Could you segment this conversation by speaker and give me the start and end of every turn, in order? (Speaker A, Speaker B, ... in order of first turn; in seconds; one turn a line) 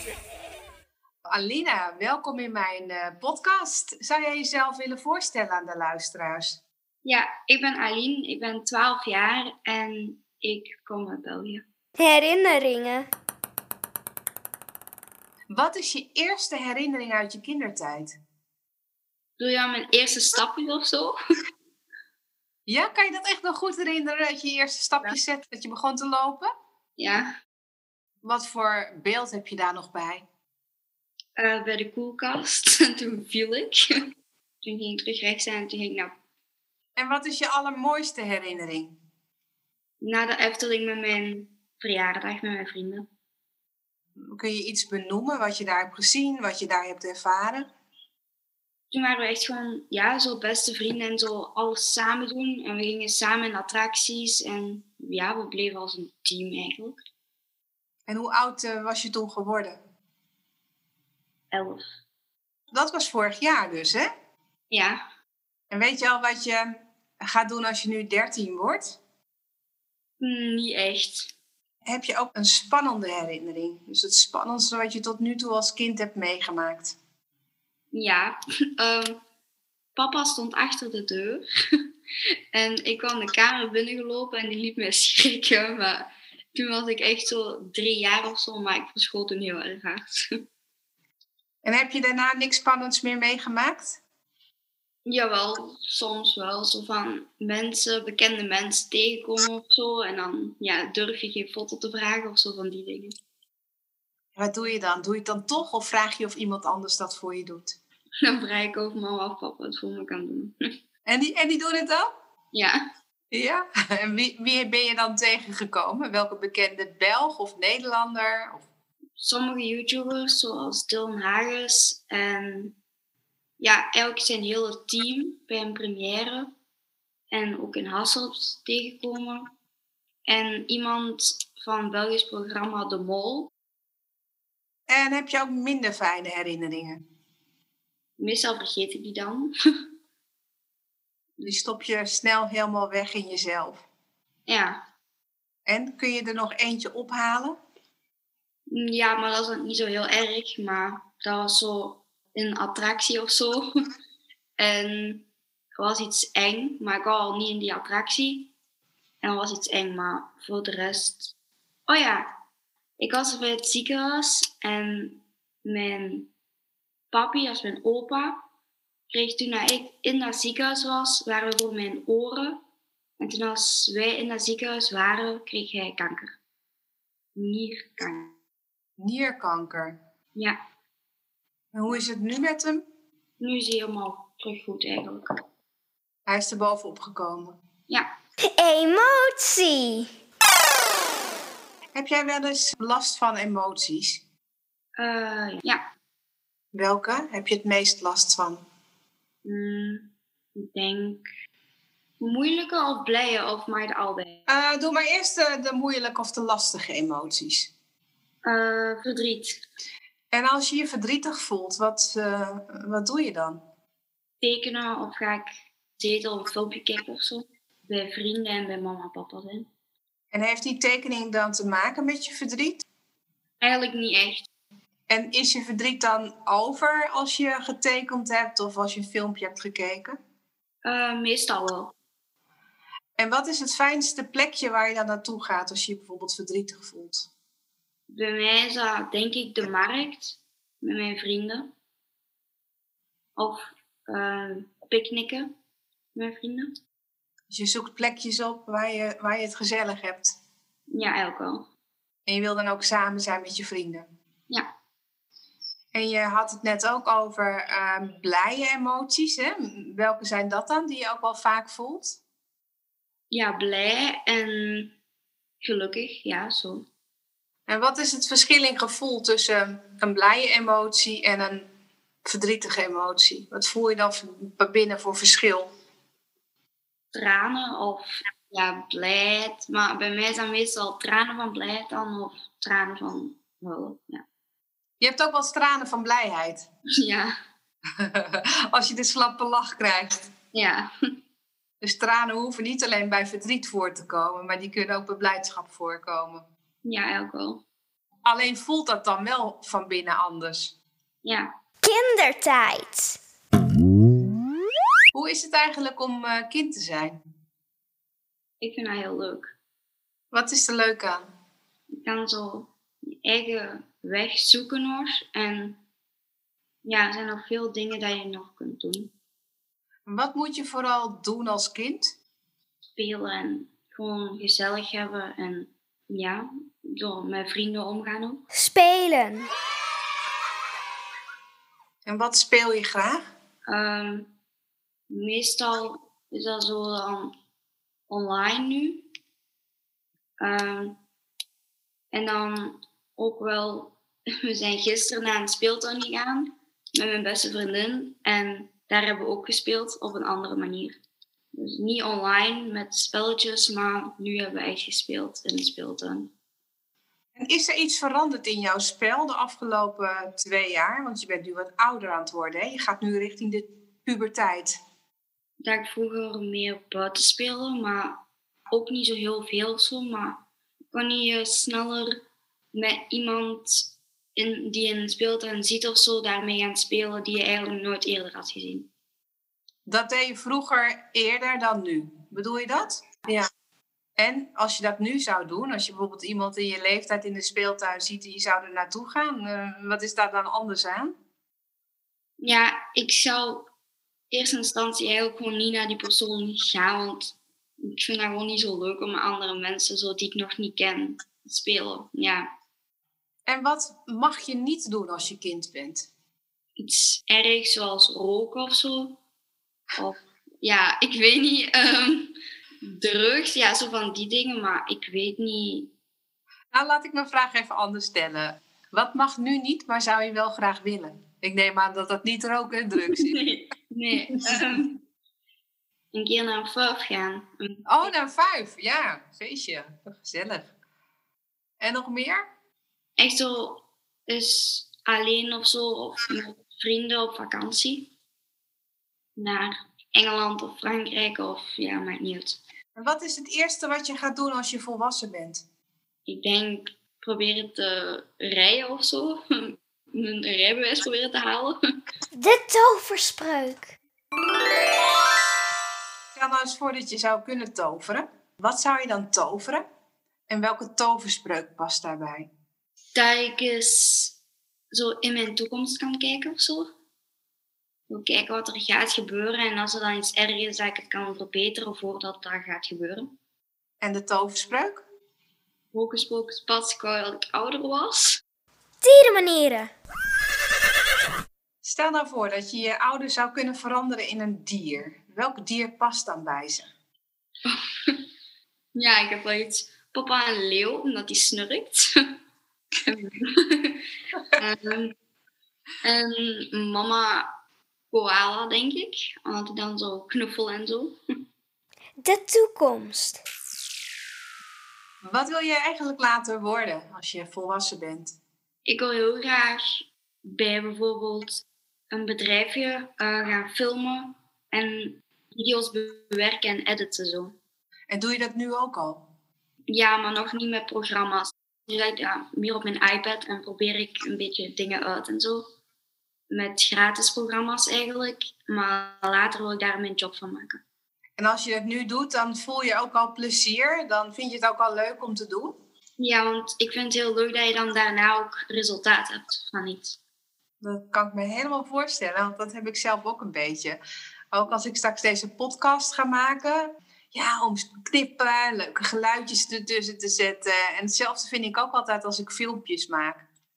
Speaker A: 1.3-6.6
Speaker B: 7.0-11.6
Speaker C: 12.0-13.1
Speaker A: 15.5-18.1
Speaker B: 19.4-21.1
Speaker A: 22.7-26.5
Speaker B: 27.0-27.3
Speaker A: 28.2-30.2
Speaker B: 31.4-33.8
Speaker B: 34.6-36.1
Speaker A: 37.0-38.9
Speaker B: 40.0-43.0
Speaker A: 44.2-47.7
Speaker B: 48.9-57.0
Speaker A: 58.1-59.8
Speaker B: 61.5-61.9
Speaker A: 62.7-64.1
Speaker B: 64.7-65.0
Speaker A: 65.7-66.7
Speaker A: 67.2-69.0
Speaker B: 70.2-71.3
Speaker A: 71.8-77.0
Speaker B: 77.9-79.2
Speaker B: 79.9-81.5
Speaker B: 82.5-90.2
Speaker A: 91.6-94.0
Speaker B: 95.0-103.1
Speaker A: 104.3-107.8
Speaker B: 108.2-110.5
Speaker A: 111.0-112.1
Speaker B: 112.5-112.8
Speaker A: 113.3-118.6
Speaker B: 119.2-122.8
Speaker B: 123.6-126.5
Speaker B: 127.3-129.5
Speaker B: 130.3-133.5
Speaker A: 134.9-137.0
Speaker B: 138.2-139.5
Speaker A: 141.4-143.8
Speaker B: 144.4-144.8
Speaker A: 145.7-147.6
Speaker B: 148.7-153.7
Speaker B: 154.6-158.5
Speaker B: 159.2-161.3
Speaker B: 161.9-162.3
Speaker B: 163.0-166.3
Speaker B: 167.1-168.4
Speaker B: 169.1-172.6
Speaker B: 173.2-176.4
Speaker B: 177.3-178.4
Speaker A: 179.0-180.0
Speaker A: 181.7-182.8
Speaker B: 183.4-185.3
Speaker A: 186.3-187.6
Speaker C: 188.5-190.1
Speaker A: 191.9-194.2
Speaker B: 195.0-195.8
Speaker A: 196.7-198.6
Speaker B: 199.4-201.3
Speaker B: 202.2-204.4
Speaker A: 204.5-207.7
Speaker B: 208.4-209.6
Speaker A: 210.3-213.6
Speaker B: 214.4-219.7
Speaker A: 220.3-222.8
Speaker B: 223.6-224.5
Speaker A: 225.1-230.2
Speaker B: 230.8-231.9
Speaker A: 233.2-237.3
Speaker B: 238.1-241.7
Speaker B: 243.3-245.5
Speaker B: 246.1-246.8
Speaker A: 247.5-250.3
Speaker B: 250.9-251.7
Speaker A: 252.3-254.1
Speaker A: 255.9-262.2
Speaker B: 263.3-264.9
Speaker B: 265.6-266.9
Speaker A: 267.7-271.7
Speaker A: 272.2-275.7
Speaker B: 277.1-284.2
Speaker A: 285.0-286.6
Speaker B: 287.0-287.3
Speaker A: 288.0-290.3
Speaker B: 290.5-290.9
Speaker A: 291.8-296.4
Speaker B: 296.8-297.6
Speaker A: 298.2-300.7
Speaker B: 301.2-301.5
Speaker C: 301.8-303.2
Speaker A: 305.1-307.2
Speaker B: 308.6-309.5
Speaker A: 310.3-311.3
Speaker B: 312.0-315.8
Speaker B: 316.8-319.1
Speaker A: 320.1-322.1
Speaker B: 322.9-328.4
Speaker C: 328.5-329.5
Speaker A: 332.0-333.3
Speaker B: 333.7-334.3
Speaker B: 335.1-337.3
Speaker B: 338.1-339.0
Speaker B: 340.4-341.0
Speaker B: 342.1-351.0
Speaker B: 351.5-356.3
Speaker A: 357.4-364.8
Speaker B: 365.6-372.2
Speaker B: 372.7-378.9
Speaker A: 379.9-383.5
Speaker A: 384.2-391.1
Speaker B: 392.4-393.7
Speaker B: 394.3-402.5
Speaker A: 403.5-406.1
Speaker B: 406.8-409.2
Speaker B: 410.0-415.9
Speaker A: 416.7-423.4
Speaker B: 423.0-425.0
Speaker B: 426.1-428.1
Speaker A: 427.9-430.7
Speaker A: 431.8-432.4
Speaker B: 433.2-438.1
Speaker B: 439.4-442.6
Speaker A: 442.9-445.6
Speaker B: 446.2-451.8
Speaker C: 452.3-453.9
Speaker A: 456.3-459.8
Speaker A: 460.5-462.5
Speaker B: 463.1-464.4
Speaker B: 464.9-466.9
Speaker B: 468.1-473.3
Speaker A: 474.0-475.0
Speaker B: 475.9-478.4
Speaker C: 479.0-479.9
Speaker A: 481.8-486.9
Speaker B: 487.6-488.3
Speaker B: 488.9-492.1
Speaker B: 493.1-495.1
Speaker B: 496.0-497.5
Speaker B: 498.1-501.2
Speaker C: 502.2-503.4
Speaker A: 505.2-508.4
Speaker B: 508.8-517.5
Speaker A: 518.1-519.2
Speaker B: 519.9-525.6
Speaker B: 526.5-530.8
Speaker A: 531.4-535.8
Speaker B: 536.2-540.2
Speaker A: 540.8-544.0
Speaker A: 544.5-553.4